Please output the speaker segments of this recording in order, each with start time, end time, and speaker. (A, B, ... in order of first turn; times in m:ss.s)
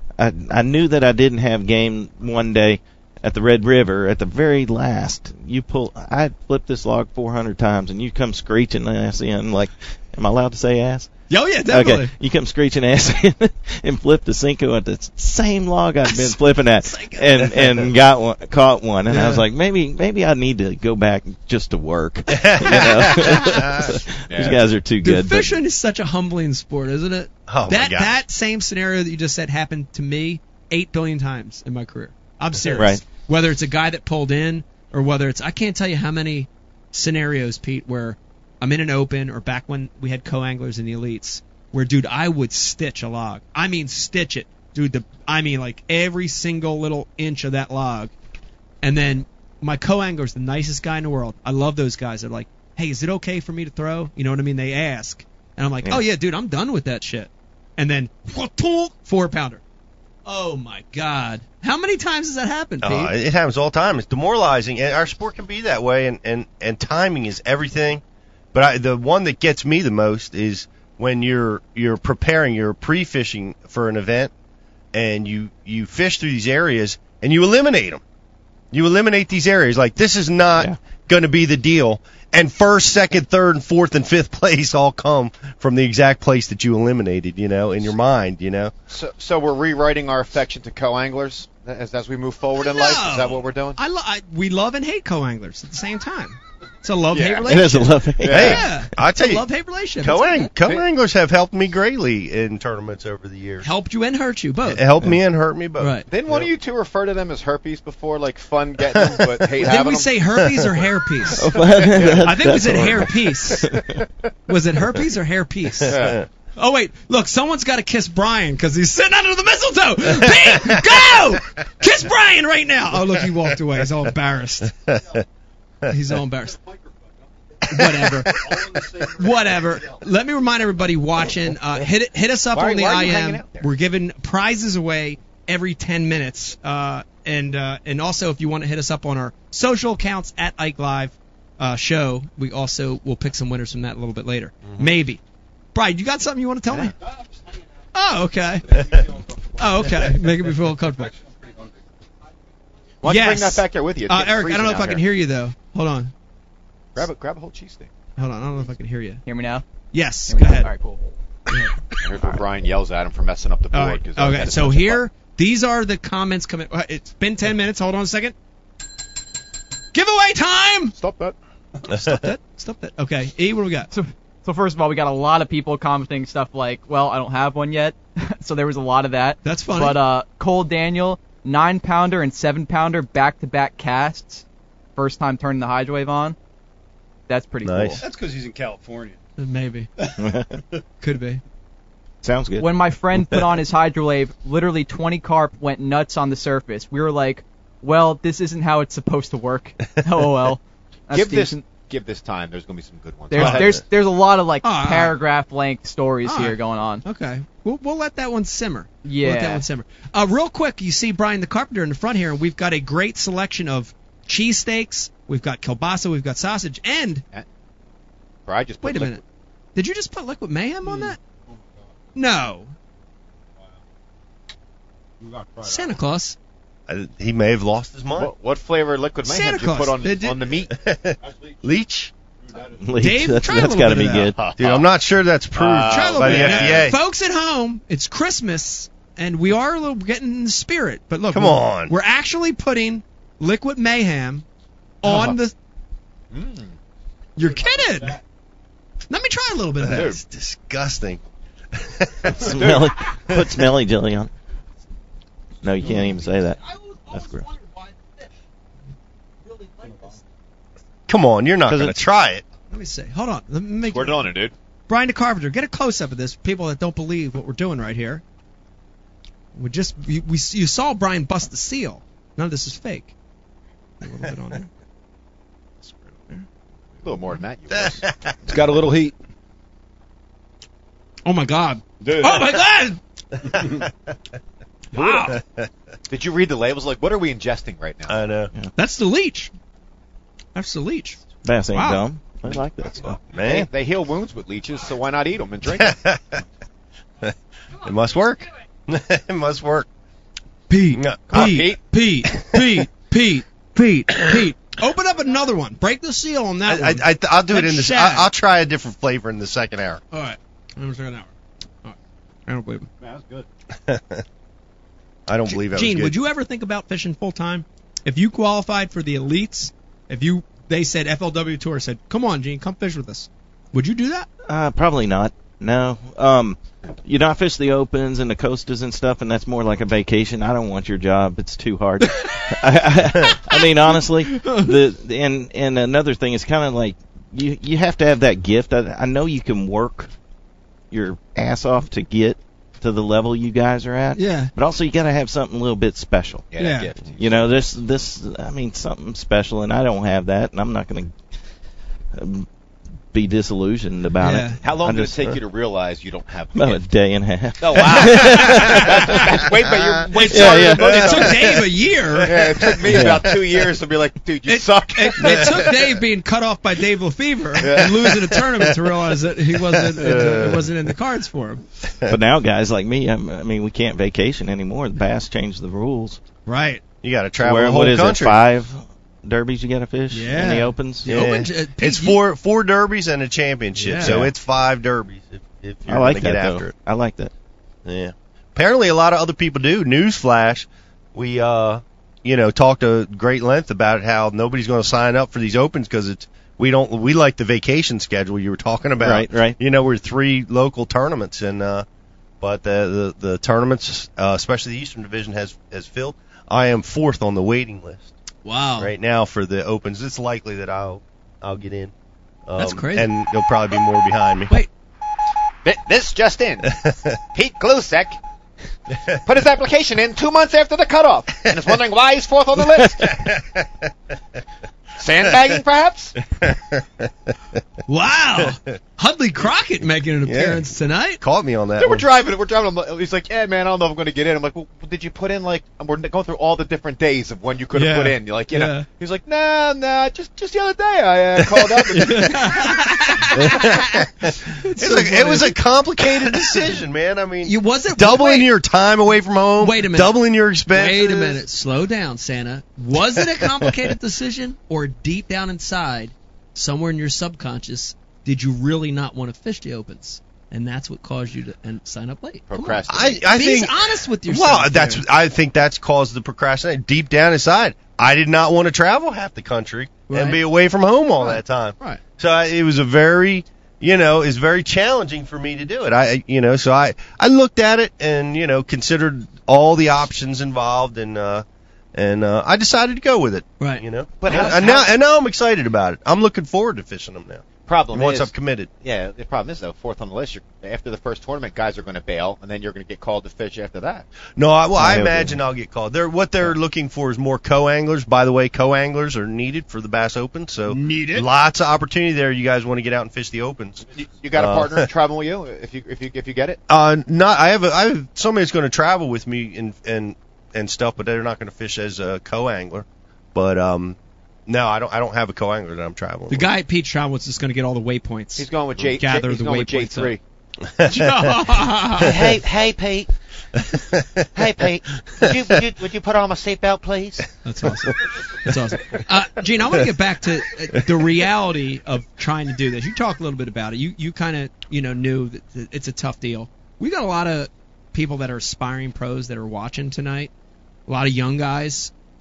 0:00.2-0:11.1 A
0:11.3-0:12.1 B
0:11.7-0:25.6 A
0:16.1-0:17.8 B
0:19.1-0:19.4 B
0:22.3-0:24.0 C
0:24.3-0:24.6 D
0:25.0-0:48.1 B
0:27.5-0:28.2 C
0:32.7-0:33.0 A
0:48.8-0:59.6 B
1:00.3-1:03.1 B
1:02.8-1:08.0 C
1:08.5-1:14.3 C
1:14.9-1:18.0 C
1:18.7-1:28.7 C
1:28.9-1:33.8 D
1:32.6-1:40.5 B
1:37.1-1:37.7 D
1:37.5-1:38.7 A
1:38.2-1:38.6 D
1:38.3-1:39.4 C
1:40.0-1:43.7 C
1:40.6-1:40.9 D
1:43.6-1:44.9 B
1:44.6-1:46.0 C
1:45.8-1:46.1 B
1:46.1-1:50.2 D
1:49.0-1:49.3 C
1:49.6-1:51.5 B
1:51.4-1:53.8 A
1:51.6-1:52.5 D
1:52.2-1:53.7 B
1:53.6-1:54.0 D
1:54.5-1:56.0 B
1:55.9-1:56.2 D
1:55.9-1:56.2 C
1:56.6-2:04.7 B
2:00.4-2:00.8 C
2:04.9-2:05.2 C
2:05.9-2:06.6 B
2:07.7-2:08.4 B
2:07.7-2:08.3 C
2:08.5-2:09.2 E
2:09.1-2:25.2 B
2:12.5-2:13.7 D
2:25.7-2:27.0 B
2:27.9-2:28.9 B
2:29.6-2:31.1 B
2:33.0-2:35.0 D
2:33.0-2:36.1 B
2:37.0-2:37.9 D
2:38.2-2:39.2 B
2:39.2-2:39.6 F
2:39.9-2:40.7 B
2:40.3-2:41.0 F
2:41.5-2:41.7 B
2:42.0-2:45.0 D
2:43.7-2:48.4 B
2:49.9-2:51.0 B
2:51.0-2:51.4 D
2:51.9-2:52.2 C
2:51.9-2:53.9 B
2:53.9-3:04.4 F
2:59.4-3:00.0 B
3:05.0-3:06.4 F
3:07.3-3:08.0 F
3:07.6-3:08.0 C
3:08.0-3:09.2 E
3:09.4-3:09.9 B
3:10.2-3:10.6 A
3:11.0-3:11.4 B
3:12.2-3:13.5 A
3:12.6-3:21.6 F
3:21.1-3:23.8 D
3:23.3-3:27.0 F
3:23.4-3:23.8 C
3:24.6-3:25.2 B
3:26.2-3:37.2 B
3:29.0-3:29.6 F
3:38.5-3:39.2 D
3:38.8-3:39.2 B
3:39.8-3:41.2 B
3:40.9-3:41.1 D
3:42.2-3:42.7 B
3:45.2-3:45.9 E
3:45.6-3:46.4 B
3:46.9-3:48.3 C
3:48.1-3:50.7 D
3:49.2-3:50.5 B
3:50.7-3:52.1 C
3:52.8-3:54.4 A
3:53.0-3:54.3 B
3:54.4-3:54.9 D
3:54.6-3:57.0 C
3:55.6-3:56.9 D
3:55.8-4:04.4 B
4:01.3-4:01.9 C
4:05.0-4:05.5 B
4:05.0-4:05.4 D
4:06.3-4:06.8 D
4:07.4-4:08.2 B
4:09.1-4:10.2 B
4:09.9-4:10.2 D
4:10.0-4:11.2 C
4:11.8-4:12.7 C
4:12.3-4:14.3 A
4:12.6-4:13.0 D
4:15.6-4:16.6 A
4:16.8-4:17.9 B
4:17.1-4:17.4 A
4:19.5-4:20.2 B
4:21.1-4:22.4 C
4:21.7-4:22.0 A
4:22.7-4:24.3 B
4:23.9-4:24.5 D
4:24.9-4:28.2 B
4:29.6-4:33.1 B
4:34.0-4:34.7 B
4:37.0-4:38.1 D
4:37.7-4:38.4 C
4:38.5-4:39.2 E
4:41.3-4:43.0 B
4:42.0-4:42.4 E
4:44.9-4:45.4 B
4:45.0-4:45.7 C
4:46.1-4:48.2 D
4:48.1-4:48.5 C
4:48.8-4:49.5 B
4:50.6-4:51.2 B
4:51.4-4:53.2 A
4:51.7-4:52.0 B
4:53.3-4:53.7 C
4:53.3-4:56.0 D
4:55.7-4:56.4 C
4:57.2-4:59.9 C
5:00.7-5:08.3 B
5:00.9-5:01.7 C
5:01.3-5:01.8 D
5:06.7-5:10.0 C
5:10.1-5:11.3 B
5:12.5-5:12.9 B
5:13.0-5:13.5 E
5:13.9-5:14.2 C
5:15.3-5:16.2 C
5:15.4-5:24.3 B
5:24.5-5:40.1 A
5:32.0-5:32.6 B
5:33.5-5:34.7 B
5:40.9-5:46.5 A
5:44.2-5:44.5 B
5:46.5-5:47.5 D
5:46.6-5:46.9 B
5:47.2-5:51.2 A
5:52.1-5:52.5 A
5:53.1-5:55.2 A
5:54.2-5:54.6 B
5:54.6-5:56.8 D
5:56.5-5:59.3 A
5:57.6-6:01.5 D
6:00.1-6:02.4 B
6:00.3-6:01.2 A
6:02.2-6:05.7 D
6:02.9-6:03.2 A
6:04.5-6:11.6 B
6:07.6-6:08.2 D
6:09.9-6:10.7 C
6:12.1-6:16.2 A
6:16.5-6:16.8 B
6:17.0-6:18.4 C
6:17.4-6:21.1 A
6:20.1-6:22.2 B
6:21.0-6:26.7 C
6:23.8-6:24.2 B
6:24.0-6:24.3 A
6:25.9-6:27.3 A
6:27.9-6:41.8 C
6:39.0-6:39.6 A
6:42.4-6:48.1 C
6:48.4-6:48.9 B
6:48.8-6:51.9 C
6:52.5-6:54.5 C
6:52.6-6:53.1 B
6:55.6-6:56.7 D
6:56.8-6:57.1 C
6:57.3-6:58.2 D
6:59.2-7:03.2 D
7:03.0-7:03.6 C
7:05.0-7:06.2 D
7:06.4-7:07.1 C
7:07.9-7:11.2 B
7:10.2-7:10.7 C
7:11.2-7:12.1 C
7:11.8-7:22.7 D
7:17.7-7:18.9 B
7:22.0-7:24.0 B
7:23.4-7:31.4 C
7:24.6-7:25.6 B
7:26.1-7:26.7 B
7:27.4-7:28.5 B
7:29.6-7:45.0 B
7:33.4-7:33.7 C
7:42.5-7:43.3 D
7:42.9-8:08.7 C
7:50.1-7:50.4 B
7:51.2-7:52.0 B
8:04.2-8:05.0 D
8:07.7-8:14.1 D
8:14.4-8:23.8 C
8:20.7-8:21.3 B
8:24.0-8:26.6 D
8:24.4-8:24.9 C
8:26.7-8:36.5 C
8:36.3-8:40.2 B
8:38.4-8:40.2 D
8:40.7-8:41.6 C
8:40.8-8:42.2 B
8:42.0-8:43.1 D
8:43.6-8:44.3 C
8:44.3-8:47.2 D
8:45.1-8:45.6 C
8:47.4-9:00.3 B
9:00.9-9:01.9 B